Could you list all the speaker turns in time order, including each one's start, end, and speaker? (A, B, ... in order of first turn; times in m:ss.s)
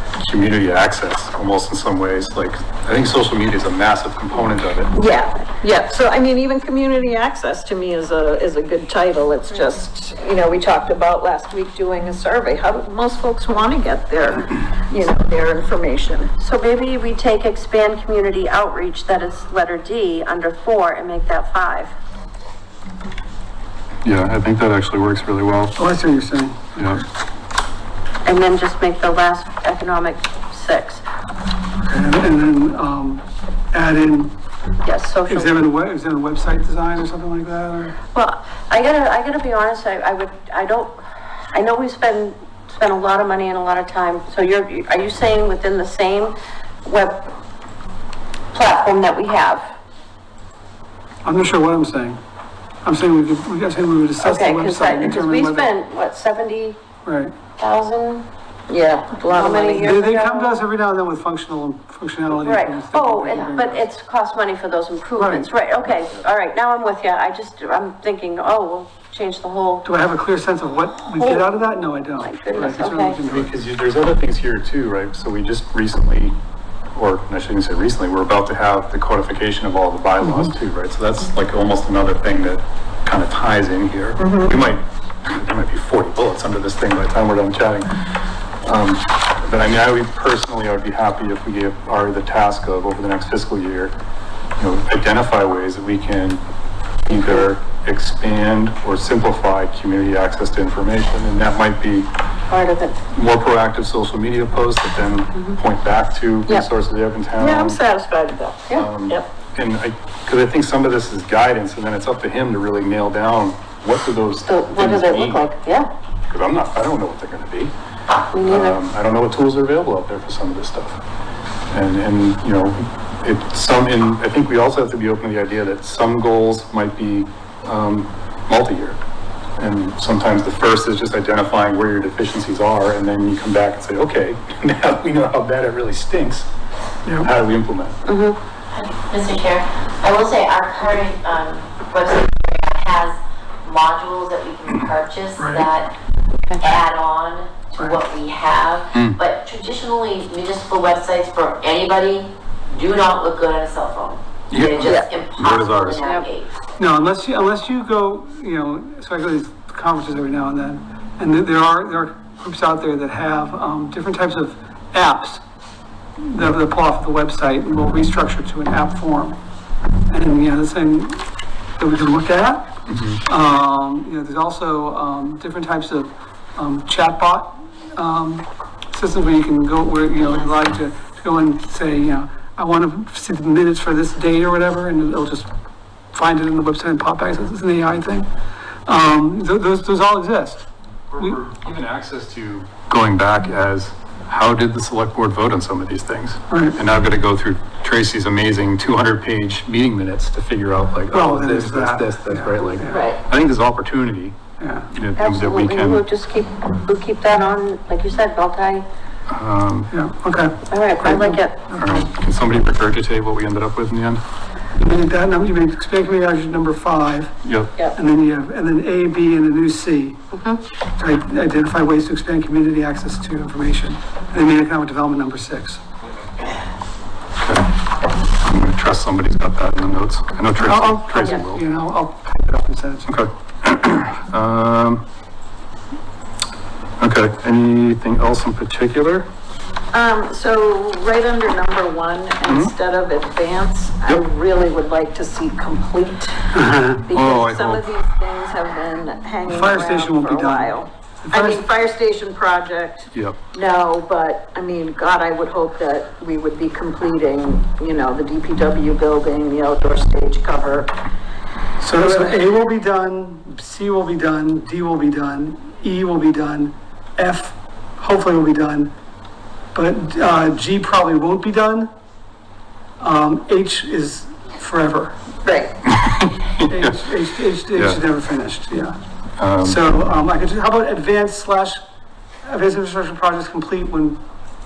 0:00.2-0:04.9 A
0:04.9-0:16.3 B
0:16.4-0:21.9 C
0:24.0-0:25.8 A
0:25.8-0:26.8 D
0:26.8-0:27.0 A
0:28.3-0:31.0 C
0:31.8-0:34.3 D
0:34.8-0:35.6 C
0:35.3-0:38.0 D
0:38.1-0:41.0 C
0:41.5-0:47.3 C
0:48.5-0:49.6 C
0:51.2-0:52.2 D
0:52.8-0:55.7 D
0:54.2-0:56.8 C
0:57.0-0:57.3 D
0:57.6-0:58.3 C
0:58.7-1:00.0 B
0:59.3-1:00.6 C
0:59.8-1:03.9 D
1:02.4-1:09.9 C
1:05.2-1:05.5 D
1:09.8-1:13.5 D
1:11.1-1:11.6 C
1:12.2-1:13.2 C
1:13.3-1:16.4 A
1:17.0-1:27.9 A
1:24.2-1:24.6 B
1:28.6-1:34.0 A
1:34.6-1:36.4 A
1:37.0-1:42.1 A
1:37.1-1:37.5 C
1:42.5-1:43.0 C
1:43.1-1:47.8 A
1:47.4-1:49.3 B
1:48.7-1:55.5 A
1:54.4-1:55.9 C
1:56.3-1:57.7 A
1:58.3-1:58.8 C
1:58.5-2:01.0 A
2:01.7-2:09.0 A
2:09.6-2:16.5 A
2:17.2-2:18.0 A
2:18.1-2:18.4 C
2:18.7-2:25.9 E
2:25.4-2:25.7 D
2:26.5-2:26.8 C
2:26.6-2:36.5 E
2:28.9-2:29.2 A
2:34.5-2:36.0 A
2:34.8-2:35.1 B
2:36.0-2:36.3 C
2:36.8-2:45.4 D
2:46.2-2:49.4 D
2:50.1-2:51.3 D
2:51.8-2:52.7 D
2:52.9-2:53.2 A
2:53.3-3:05.5 D
3:06.1-3:08.3 D
3:08.9-3:10.6 D
3:11.1-3:24.4 A
3:16.5-3:16.8 D
3:21.1-3:23.1 D
3:22.9-3:23.2 B
3:24.6-3:24.9 D
3:24.9-3:26.1 A
3:25.2-3:28.9 C
3:29.3-3:29.9 A
3:29.9-3:32.1 D
3:30.7-3:31.6 C
3:31.8-3:34.2 A
3:34.8-3:37.4 D
3:37.4-3:37.7 A
3:38.0-3:40.2 D
3:40.3-3:40.6 C
3:41.0-3:45.8 D
3:47.4-3:47.7 A
3:48.4-3:51.6 A
3:50.6-3:53.2 D
3:53.1-3:55.0 A
3:57.0-3:59.3 A
3:59.9-4:20.9 B
4:02.5-4:02.7 A
4:06.5-4:07.0 D
4:07.1-4:07.9 A
4:09.4-4:11.7 D
4:21.8-4:28.9 D
4:22.0-4:22.4 B
4:29.7-4:31.9 D
4:33.0-4:35.1 D
4:35.4-4:35.8 B
4:35.9-4:37.0 A
4:36.6-4:39.0 D
4:37.8-4:38.0 A
4:39.4-4:39.8 A
4:39.6-4:41.8 D
4:42.4-4:44.2 D